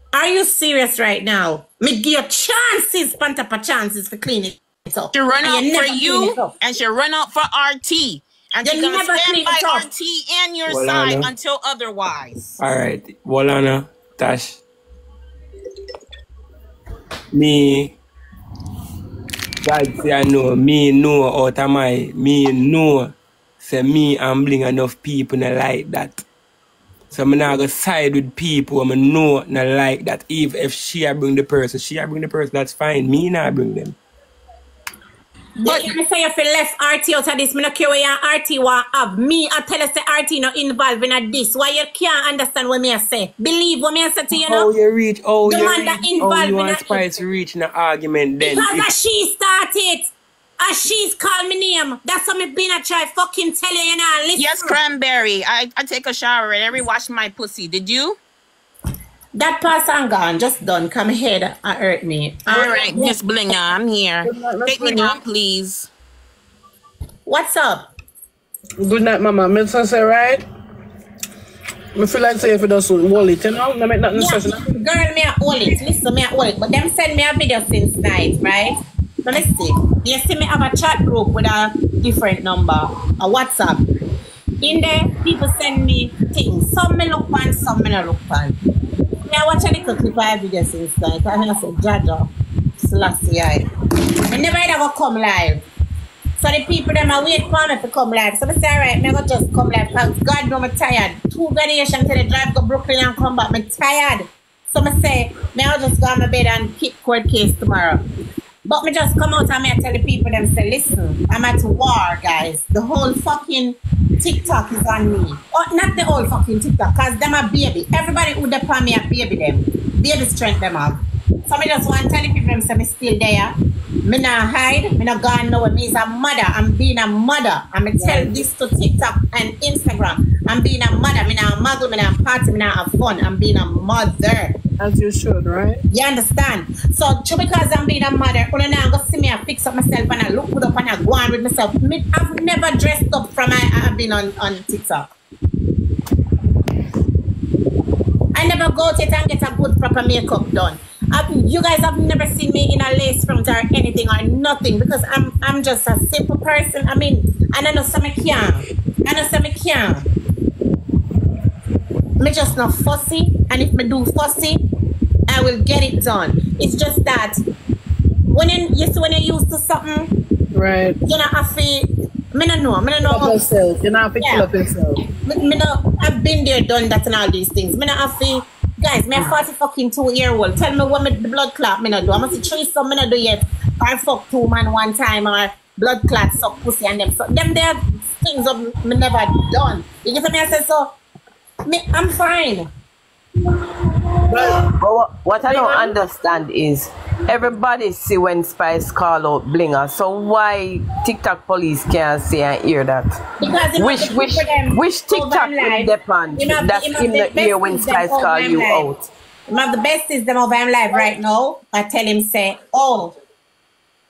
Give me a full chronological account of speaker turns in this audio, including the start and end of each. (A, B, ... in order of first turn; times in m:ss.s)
0:00.1-0:06.6 A
0:05.1-0:12.6 B
0:08.6-0:09.9 A
0:10.7-0:11.3 C
0:12.6-0:14.6 C
0:17.3-0:18.0 C
0:19.6-0:26.2 C
0:27.1-0:34.0 C
0:35.6-0:44.7 A
0:44.3-0:48.9 C
0:45.4-0:47.0 A
0:48.4-0:50.1 A
0:50.6-0:54.8 A
0:54.4-0:58.2 B
0:59.3-1:03.1 A
1:02.5-1:05.9 B
1:04.2-1:05.2 D
1:07.3-1:07.9 A
1:08.8-1:10.4 D
1:12.0-1:14.7 D
1:14.1-1:23.8 A
1:24.6-1:28.6 A
1:29.3-1:33.7 A
1:34.3-1:35.6 A
1:36.4-1:48.0 A
1:48.6-2:14.6 A
2:08.0-2:08.3 D
2:14.8-2:15.8 D
2:15.9-2:25.1 A
2:28.3-2:40.1 A
2:42.2-2:44.6 A
2:45.3-2:47.4 A
2:48.3-2:50.1 A
2:50.5-2:51.0 D
2:51.1-2:53.4 A
2:53.0-2:55.0 D
2:54.2-2:54.5 A
2:55.2-3:11.0 A
3:11.6-3:12.7 A
3:14.3-3:23.1 E
3:23.4-3:28.9 A
3:23.8-3:29.1 E
3:29.5-3:33.1 A